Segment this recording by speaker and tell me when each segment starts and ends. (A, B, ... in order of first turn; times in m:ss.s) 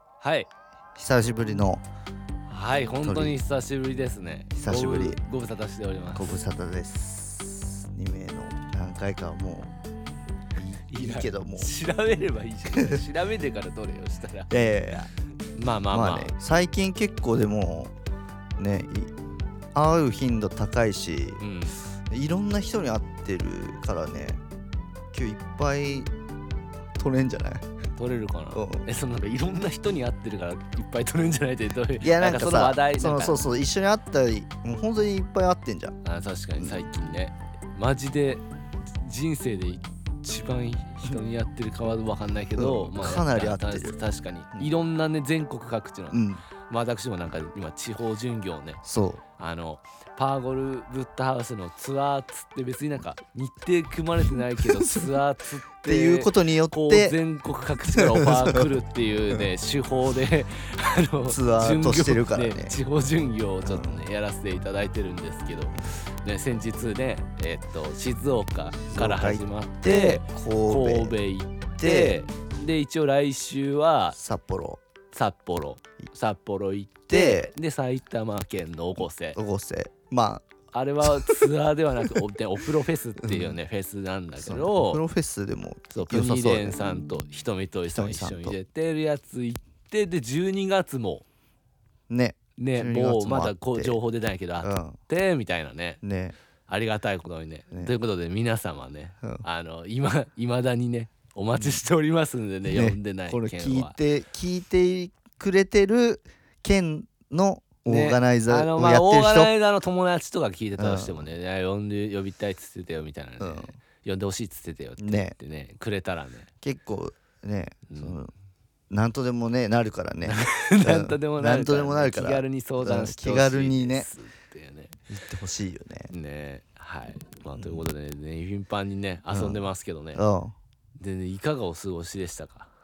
0:00.2-0:00.5 A
0:01.0-0:01.8 B
0:02.5-0:06.4 A
0:03.0-0:03.4 B
0:04.5-0:05.2 B
0:06.1-0:09.7 B
0:10.5-0:11.7 B
0:10.9-0:14.5 A
0:12.7-0:13.0 B
0:14.5-0:15.1 B
0:15.5-0:16.3 A
0:15.9-0:17.9 B
0:18.6-0:19.1 B
0:19.7-0:21.4 B
0:21.4-0:21.8 A
0:22.1-0:24.4 B
0:25.1-0:26.1 B
0:27.0-0:27.6 B
0:28.0-0:33.4 A
0:28.5-0:28.9 B
0:32.0-0:36.0 B
0:36.0-0:48.8 A
0:42.6-0:44.0 B
0:46.1-0:46.4 B
0:48.8-0:49.2 B
0:49.4-1:14.2 A
0:54.6-0:55.1 B
0:55.8-0:57.2 B
0:57.8-0:58.7 B
1:01.3-1:02.8 B
1:03.6-1:04.1 B
1:08.9-1:11.2 B
1:11.8-1:12.2 B
1:14.2-1:14.8 B
1:15.1-1:19.4 A
1:17.1-1:17.5 B
1:19.3-1:20.4 B
1:20.7-1:25.0 A
1:21.0-1:21.5 B
1:23.2-1:23.6 B
1:24.4-1:26.8 B
1:25.9-1:31.2 A
1:27.9-1:28.6 B
1:32.1-1:34.0 B
1:32.6-1:36.0 A
1:34.6-1:35.0 B
1:36.0-1:36.3 B
1:36.7-1:44.0 A
1:42.7-1:49.5 B
1:47.8-1:56.5 A
1:50.8-1:51.3 B
1:53.4-1:53.8 B
1:55.0-1:55.4 B
1:56.6-1:58.3 B
1:57.9-1:58.2 A
1:58.9-2:04.1 B
2:00.3-2:04.9 A
2:05.1-2:06.1 B
2:06.1-2:10.2 A
2:07.6-2:07.9 B
2:09.3-2:10.5 B
2:11.0-2:12.7 A